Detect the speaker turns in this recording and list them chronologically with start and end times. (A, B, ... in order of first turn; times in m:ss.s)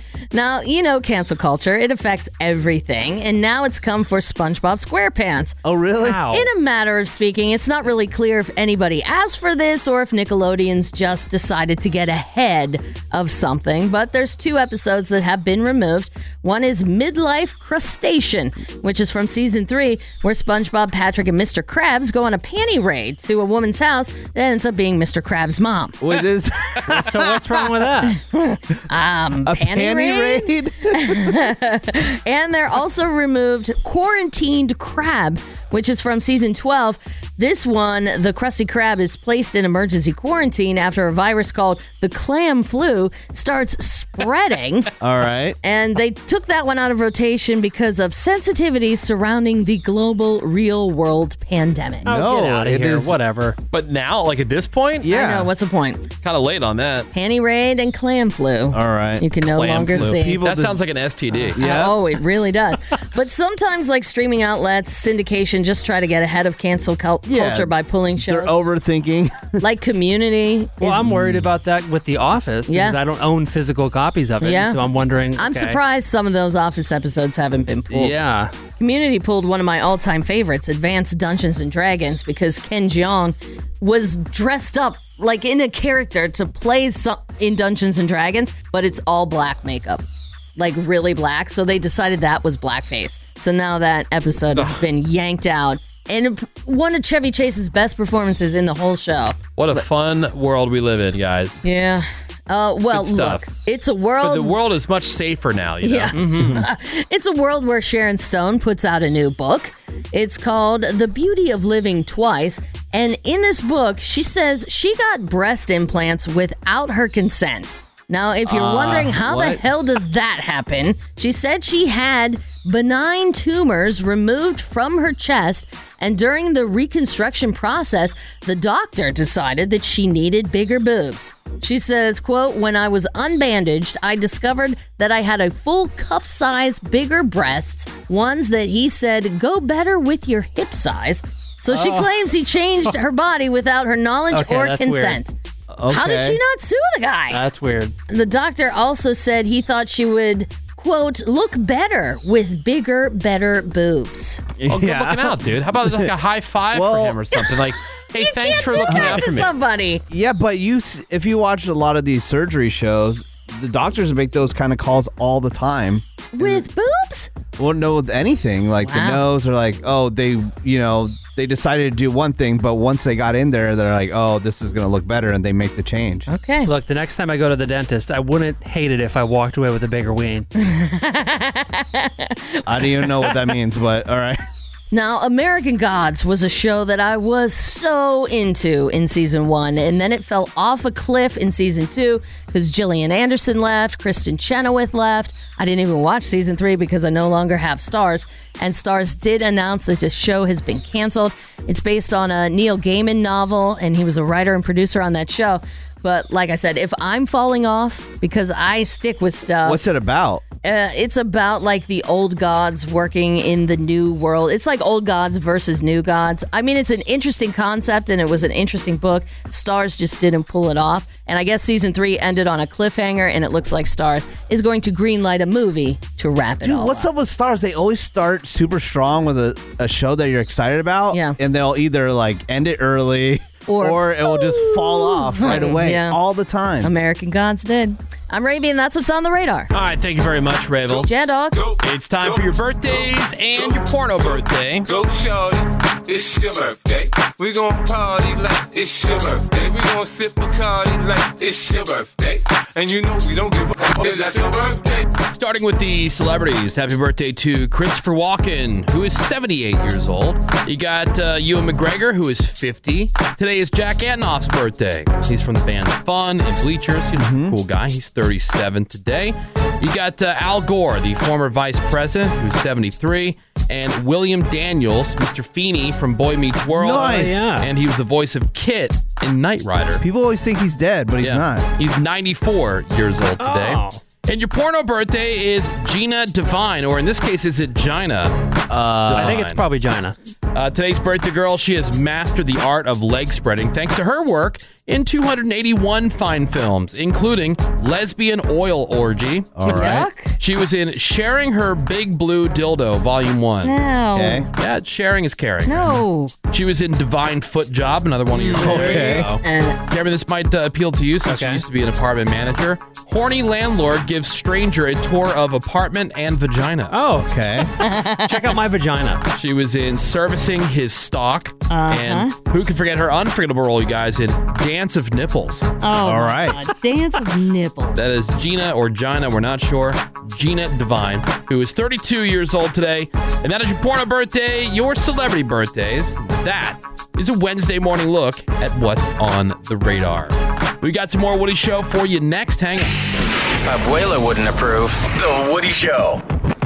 0:00.3-0:05.6 A
0:05.6-0:06.2 B
0:06.0-0:06.5 C
0:06.3-0:26.0 A
0:26.0-0:27.6 B
0:26.9-0:28.2 C
0:28.1-0:44.9 A
0:29.4-0:31.5 B
0:45.0-0:45.6 B
0:45.6-0:52.1 A
0:52.0-0:53.6 C
0:52.1-0:53.2 B
0:53.7-0:55.1 D
0:55.0-0:55.5 B
0:55.1-0:56.0 A
0:56.2-0:57.1 D
0:57.1-1:00.4 A
0:58.7-1:00.8 B
0:59.5-1:01.6 D
1:01.5-1:02.0 B
1:01.6-1:08.6 A
1:07.2-1:09.6 B
1:09.6-1:11.1 A
1:10.8-1:15.8 C
1:11.0-1:11.5 B
1:12.7-1:13.0 A
1:14.4-1:14.8 A
1:15.4-1:18.2 A
1:17.9-1:18.5 C
1:18.8-1:30.0 A
1:30.6-1:39.4 A
1:34.5-1:34.8 D
1:39.6-1:41.6 D
1:41.6-1:44.6 A
1:42.9-1:43.5 D
1:44.2-1:46.5 D
1:45.8-2:25.3 A
1:46.1-1:46.6 C
1:58.4-1:59.6 B
2:21.7-2:22.1 C
2:24.3-2:25.2 C
2:25.7-2:26.4 B
2:25.9-2:27.4 A
2:27.3-2:27.9 C
2:28.1-2:34.4 A
2:34.6-2:36.1 B
2:34.7-2:39.5 D
2:36.7-2:37.2 B
2:38.1-2:40.0 A
2:38.8-2:39.4 B
2:40.1-2:46.6 B
2:46.3-2:47.3 A
2:47.6-2:56.3 B
2:48.8-2:49.2 A
2:56.3-2:56.7 A
2:56.6-3:00.5 C
3:00.6-3:02.6 A
3:02.6-3:04.4 B
3:04.9-3:29.8 A
3:29.6-3:30.4 B
3:30.6-3:47.1 A
3:46.6-3:56.9 B
3:51.1-3:51.4 A
3:53.7-3:56.2 A
3:56.8-3:59.7 A
3:59.7-4:01.1 D
4:00.9-4:01.6 A
4:01.8-4:04.9 D
4:06.1-4:07.0 E
4:07.6-4:12.3 E
4:15.3-4:40.0 D
4:27.1-4:27.5 B
4:36.8-4:37.4 B
4:36.8-4:37.7 C
4:40.0-4:41.6 B
4:41.2-4:48.3 D
4:43.4-4:44.0 C
4:48.7-4:49.4 B
4:49.1-4:49.6 D
4:49.1-4:50.1 C
4:50.5-4:59.6 D
4:59.6-5:00.0 B
4:59.7-5:00.3 A
5:00.4-5:03.7 D
5:03.6-5:04.4 A
5:04.1-5:04.4 B
5:04.6-5:16.9 D
5:05.6-5:06.3 A
5:08.3-5:09.2 C
5:08.5-5:09.3 B
5:08.6-5:09.8 A
5:11.2-5:11.6 C
5:16.9-5:17.6 C
5:17.2-5:17.7 B
5:17.8-5:18.4 A
5:18.2-5:19.2 C
5:19.3-5:25.7 D
5:21.7-5:22.3 A
5:25.8-5:28.0 A
5:26.0-5:26.6 B
5:28.0-5:42.9 D
5:43.6-5:46.2 F